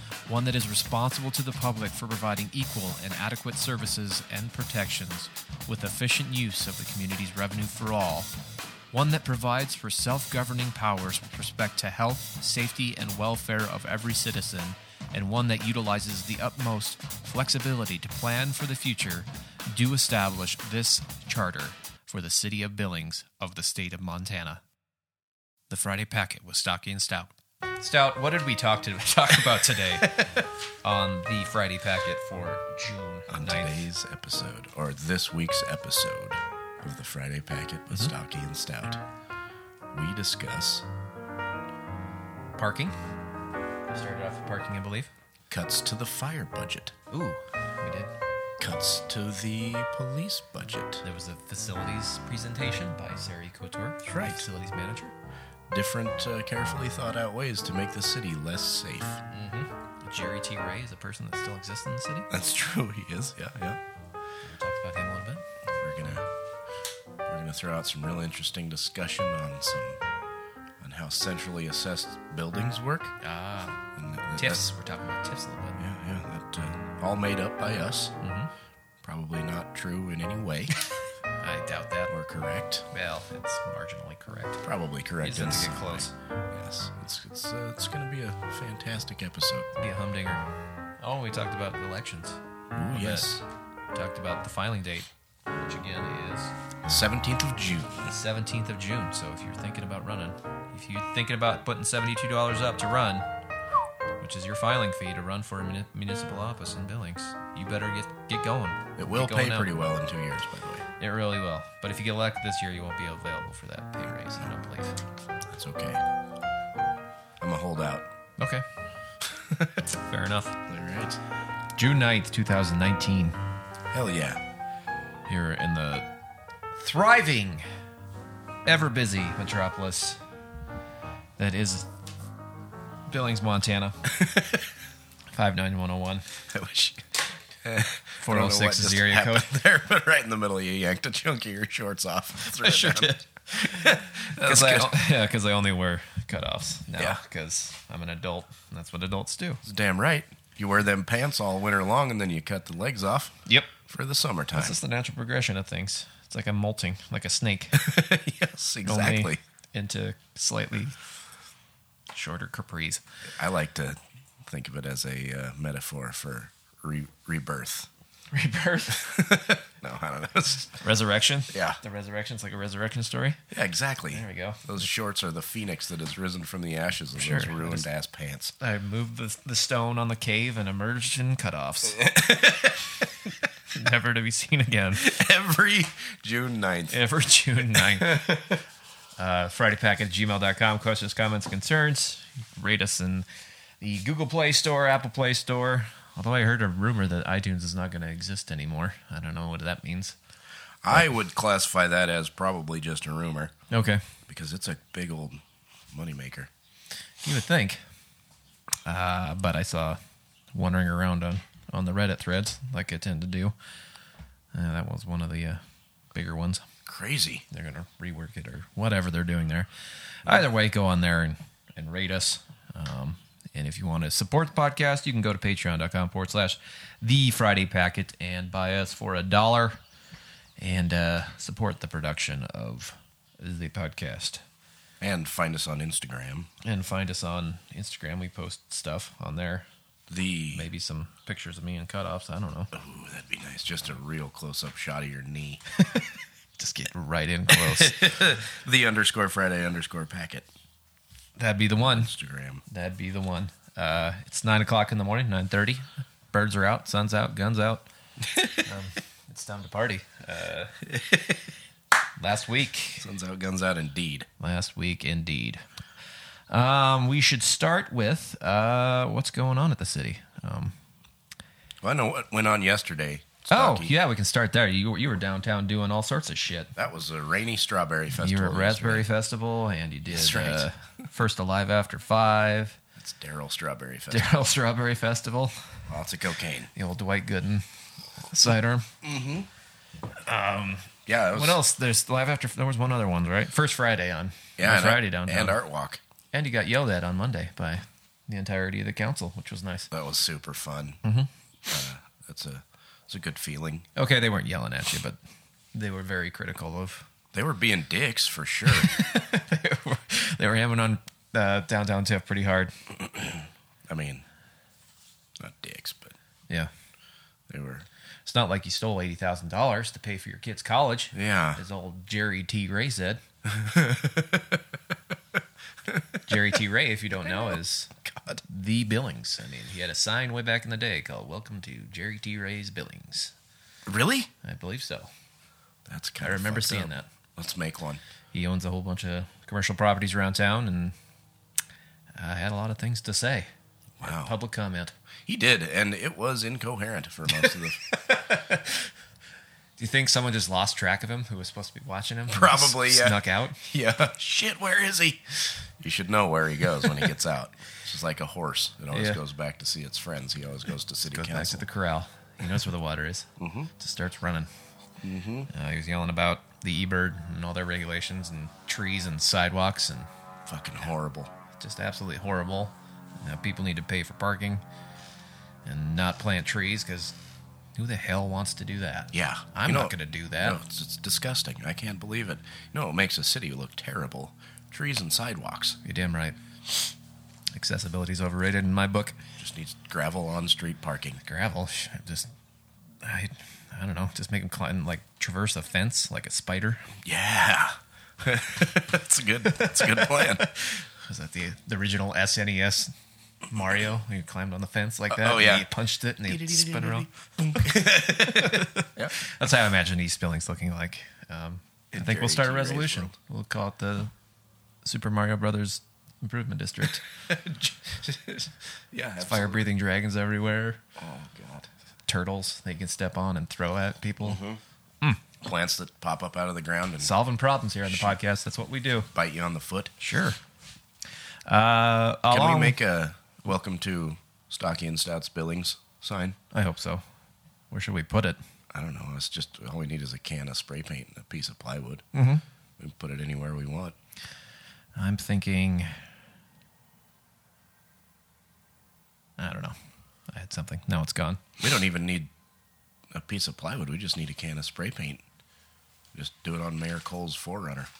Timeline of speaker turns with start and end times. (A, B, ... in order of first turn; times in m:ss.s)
0:00.3-0:08.3 A
0:08.9-0:24.6 A
0:25.7-0:33.9 A
0:33.3-0:39.0 B
0:39.9-0:40.8 B
0:42.6-0:43.0 A
0:43.9-0:45.1 A
0:45.5-0:46.9 B
0:47.1-0:48.1 A
0:48.6-0:51.0 B
0:51.0-0:55.1 A
0:54.0-0:54.5 B
0:55.7-0:59.2 B
0:59.3-1:02.3 A
1:02.3-1:03.8 B
1:04.4-1:05.4 A
1:05.7-1:06.2 B
1:07.2-1:10.0 B
1:10.8-1:13.1 B
1:13.2-1:13.8 A
1:13.9-1:14.7 B
1:14.4-1:15.8 A
1:15.8-1:18.1 B
1:18.2-1:18.5 A
1:19.0-1:20.7 B
1:21.4-1:22.1 A
1:22.1-1:22.8 B
1:22.9-1:24.6 A
1:24.6-1:29.7 B
1:25.2-1:26.1 A
1:29.8-1:30.5 A
1:31.0-1:32.4 A
1:32.7-1:33.4 B
1:32.9-1:33.3 A
1:33.9-1:36.5 A
1:36.8-1:38.1 B
1:38.0-1:43.2 A
1:44.2-1:49.7 A
1:49.0-1:50.8 B
1:51.0-1:55.0 A
1:55.4-1:56.0 B
1:57.4-1:58.0 B
1:58.4-1:58.6 A
1:59.2-1:59.8 B
1:59.8-2:00.6 A
2:00.7-2:01.2 B
2:01.8-2:03.4 A
2:03.9-2:04.4 B
2:05.3-2:06.1 A
2:06.8-2:07.7 A
2:08.6-2:10.2 A
2:11.4-2:11.9 A
2:13.1-2:14.0 A
2:14.2-2:14.6 B
2:15.3-2:16.3 A
2:16.5-2:17.1 B
2:17.6-2:25.0 B
2:18.2-2:19.5 A
2:22.5-2:29.6 A
2:29.6-2:34.8 B
2:33.5-2:33.7 A
2:34.5-2:37.8 A
2:37.7-2:39.4 B
2:38.8-2:41.0 A
2:42.1-2:43.0 A
2:43.3-2:47.9 B
2:48.3-2:49.1 A
2:48.9-2:50.8 B
2:50.8-2:53.4 A
2:51.5-2:51.8 B
2:53.5-2:58.5 B
2:54.1-2:54.6 A
2:57.2-2:57.8 A
2:58.6-3:02.0 A
3:01.9-3:03.1 B
3:03.7-3:05.1 A
3:05.0-3:07.0 B
3:06.9-3:08.3 A
3:07.8-3:08.6 B
3:09.2-3:13.2 A
3:13.8-3:20.1 A
3:20.8-3:23.5 B
3:23.7-3:24.0 A
3:24.3-3:26.5 B
3:27.2-3:27.8 A
3:28.8-3:30.0 A
3:30.5-3:33.5 A
3:34.5-3:35.6 A
3:36.1-3:36.6 A
3:36.8-3:37.4 B
3:37.5-3:39.7 A
3:40.2-3:49.8 A
3:50.6-3:54.4 A
3:55.0-3:56.5 B
3:56.6-3:59.7 A
4:00.1-4:00.6 B
4:00.5-4:02.7 A
4:02.7-4:05.6 B
4:06.6-4:08.4 A
4:07.5-4:10.5 B
4:11.4-4:12.1 A
4:11.8-4:12.6 B
4:12.7-4:17.8 A
4:18.3-4:18.6 B
4:18.6-4:20.8 A
4:20.9-4:21.5 B
4:22.2-4:23.1 A
4:23.0-4:24.3 B
4:24.4-4:25.6 A
4:26.5-4:30.8 A
4:31.8-4:33.9 B
4:33.5-4:36.7 A
4:36.7-4:39.1 B
4:38.2-4:42.8 A
4:40.0-4:40.7 B
4:43.0-4:44.4 B
4:44.1-4:45.8 A
4:45.9-4:46.7 B
4:46.7-4:47.6 A
4:48.2-4:48.9 A
4:49.0-4:49.5 B
4:50.2-4:55.6 A
4:51.0-4:51.6 B
4:54.6-4:56.0 B
4:56.3-4:59.9 A
4:59.9-5:01.0 B
5:01.0-5:01.3 A
5:01.7-5:03.8 B
5:03.9-5:05.2 A
5:05.7-5:07.1 A
5:07.3-5:08.9 B
5:08.7-5:12.8 A
5:12.9-5:14.2 B
5:15.4-5:16.1 B
5:17.5-5:17.8 B
5:18.2-5:23.2 A
5:21.1-5:21.6 B
5:23.4-5:24.6 B
5:25.8-5:26.4 B
5:26.2-5:33.3 A
5:27.3-5:28.4 B
5:33.8-5:34.3 B
5:34.4-5:35.1 A
5:35.8-5:38.0 B
5:36.2-5:37.1 A
5:38.3-5:40.9 A
5:42.2-5:43.5 A
5:44.0-5:44.3 B
5:44.0-5:44.9 A
5:45.2-5:48.0 B
5:47.3-5:48.8 A
5:49.8-5:53.6 A
5:52.3-6:01.6 B
5:58.9-5:59.2 A
6:01.1-6:04.5 A
6:03.4-6:03.7 B
6:05.0-6:05.5 B
6:05.5-6:10.1 A
6:10.4-6:11.3 B
6:11.6-6:14.6 A
6:15.6-6:17.2 A
6:17.8-6:20.6 A
6:19.1-6:25.8 B
6:25.8-6:26.4 A
6:27.5-6:29.2 A
6:29.4-6:31.2 B
6:31.2-6:32.3 A
6:33.0-6:36.9 A
6:37.0-6:40.5 B
6:39.4-6:42.9 A
6:43.5-6:47.1 A
6:45.1-6:45.7 B
6:46.2-6:49.2 B
6:48.2-6:54.1 A
6:51.9-6:53.1 B
6:54.8-6:57.1 A
6:56.8-6:59.7 B
6:59.2-7:00.8 A
7:01.0-7:01.7 B
7:02.1-7:04.4 A
7:04.2-7:04.6 B
7:05.4-7:07.1 B
7:07.0-7:09.1 A
7:07.9-7:08.2 B
7:09.1-7:09.9 B
7:10.0-7:10.4 A
7:11.4-7:12.8 A
7:12.3-7:16.4 B
7:16.5-7:17.0 A
7:17.7-7:18.4 A
7:18.7-7:22.0 B
7:22.1-7:22.4 A
7:22.8-7:24.0 B
7:25.0-7:26.0 A
7:29.4-7:29.8 A
7:30.3-7:31.4 A
7:31.6-7:32.3 B
7:33.1-7:35.2 B
7:36.1-7:37.9 B